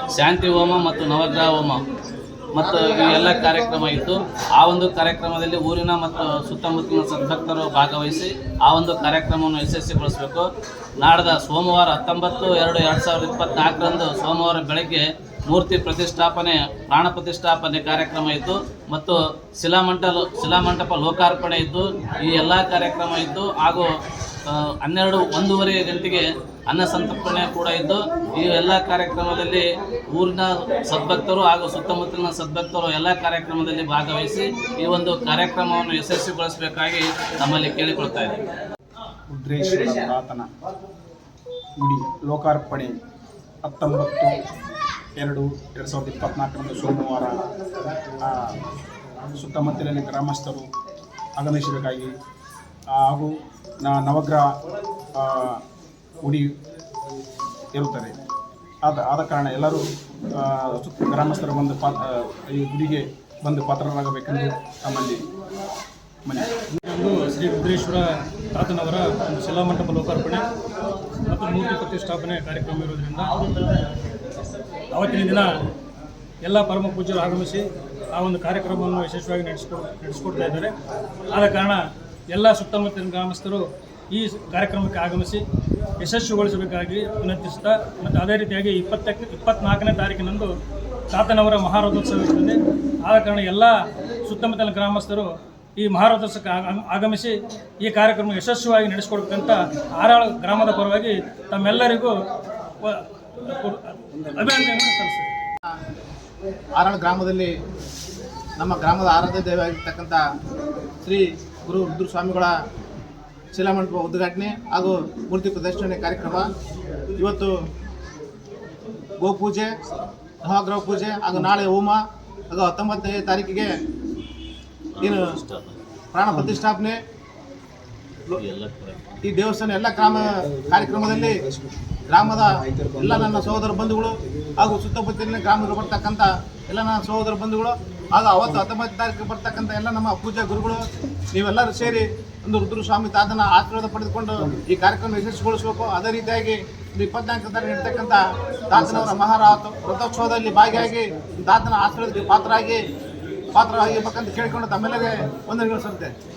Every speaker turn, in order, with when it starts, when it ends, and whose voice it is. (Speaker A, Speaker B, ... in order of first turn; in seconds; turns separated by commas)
Speaker A: 0.1-1.8, Speaker A: 2.5-10.5, Speaker A: 11.0-23.9, Speaker A: 24.5-38.4, Speaker B: 39.3-40.5, Speaker B: 41.8-43.0, Speaker B: 43.6-44.4, Speaker B: 45.2-47.4, Speaker B: 48.2-48.6, Speaker B: 49.4-50.7, Speaker B: 51.4-52.1, Speaker B: 52.9-54.5, Speaker B: 55.2-55.6, Speaker B: 56.2-56.5, Speaker B: 57.8-58.2, Speaker B: 58.8-65.2, Speaker C: 66.9-70.5, Speaker C: 71.3-73.4, Speaker C: 74.9-75.5, Speaker C: 76.4-80.7, Speaker C: 81.3-85.4, Speaker C: 86.0-90.5, Speaker C: 91.1-93.7, Speaker C: 94.3-102.1, Speaker C: 102.8-105.3, Speaker D: 106.8-107.5, Speaker D: 108.6-110.2, Speaker D: 111.0-112.5, Speaker D: 113.5-116.5, Speaker D: 117.2-117.5, Speaker D: 119.2-119.8, Speaker D: 120.5-123.7, Speaker A: 125.0-125.8, Speaker D: 125.0-125.3, Speaker D: 126.1-127.0, Speaker A: 128.3-129.1, Speaker D: 129.2-131.4, Speaker D: 132.1-140.8, Speaker D: 141.3-152.8, Speaker D: 153.5-156.1